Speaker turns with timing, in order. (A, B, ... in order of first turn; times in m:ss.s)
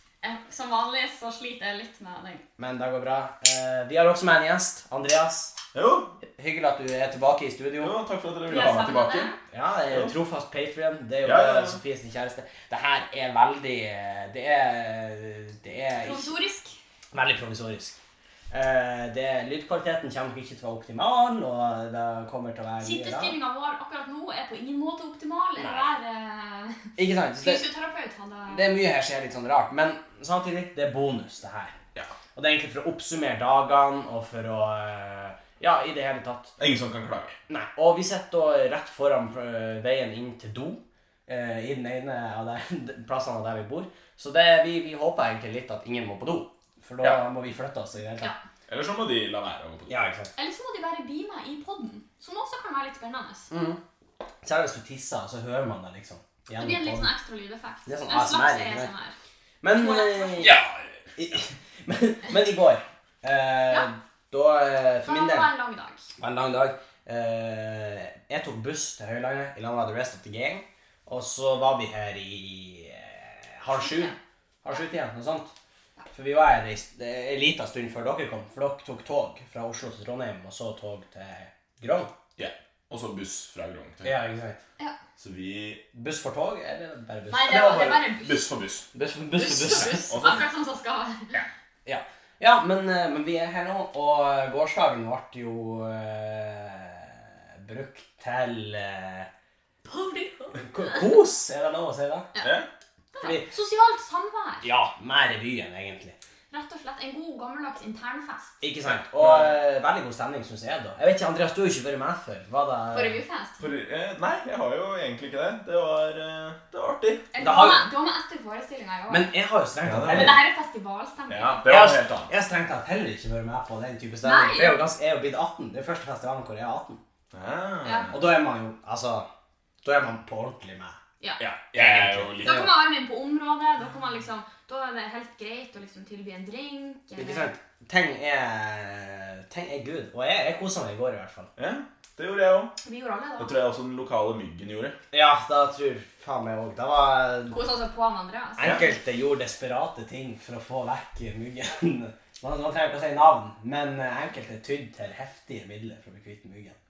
0:00.2-0:02.4 A
0:02.6-0:05.5 B
0:05.7-0:06.1 C
0:06.4-0:08.0 B
0:07.8-0:09.3 C
0:08.5-0:09.4 A
0:09.5-0:16.4 B
0:11.2-0:11.8 C
0:16.0-0:16.8 A
0:17.1-0:18.0 B
0:18.5-0:23.4 B
0:22.8-0:28.7 A
0:25.6-0:25.9 B
0:27.0-0:27.7 B
0:28.5-0:31.7 B
0:32.4-0:36.5 B
0:36.6-0:37.4 C
0:37.5-0:48.3 B
0:48.7-0:49.9 C
0:49.9-0:50.3 B
0:50.4-0:53.5 A
0:53.5-0:53.8 B
0:54.4-0:57.1 B
0:56.6-0:59.2 A
0:57.9-0:58.9 B
0:59.6-1:00.5 B
0:59.7-1:00.6 A
1:00.4-1:01.1 C
1:01.2-1:05.5 B
1:05.0-1:06.1 A
1:06.2-1:15.5 B
1:13.7-1:14.2 A
1:16.1-1:22.1 B
1:22.4-1:24.2 C
1:24.0-1:24.6 B
1:25.2-1:25.8 C
1:25.9-1:27.8 B
1:27.3-1:28.4 A
1:27.5-1:28.9 C
1:28.9-1:30.1 B
1:29.4-1:31.4 A
1:29.4-1:30.5 C
1:31.9-1:39.3 B
1:39.8-1:41.1 A
1:40.6-1:42.3 B
1:42.4-1:42.7 C
1:43.2-1:44.7 A
1:43.2-1:43.5 B
1:44.6-1:46.2 B
1:46.5-1:48.6 A
1:48.6-1:53.2 B
1:49.0-1:49.6 C
1:52.9-1:53.6 A
1:53.6-1:57.3 C
1:57.3-1:59.3 A
1:57.4-1:57.9 B
1:59.1-2:00.4 B
1:59.8-2:00.4 C
2:00.1-2:01.7 A
2:01.3-2:02.3 C
2:01.7-2:07.0 B
2:04.2-2:04.9 A
2:07.3-2:08.2 C
2:07.8-2:08.2 A
2:08.1-2:09.3 B
2:09.8-2:11.0 B
2:11.4-2:12.7 C
2:11.7-2:12.7 B
2:12.4-2:17.5 A
2:17.2-2:21.5 B
2:21.6-2:22.7 C
2:22.8-2:23.6 A
2:23.4-2:25.0 C
2:25.1-2:27.6 B
2:27.5-2:28.7 A
2:28.6-2:36.8 B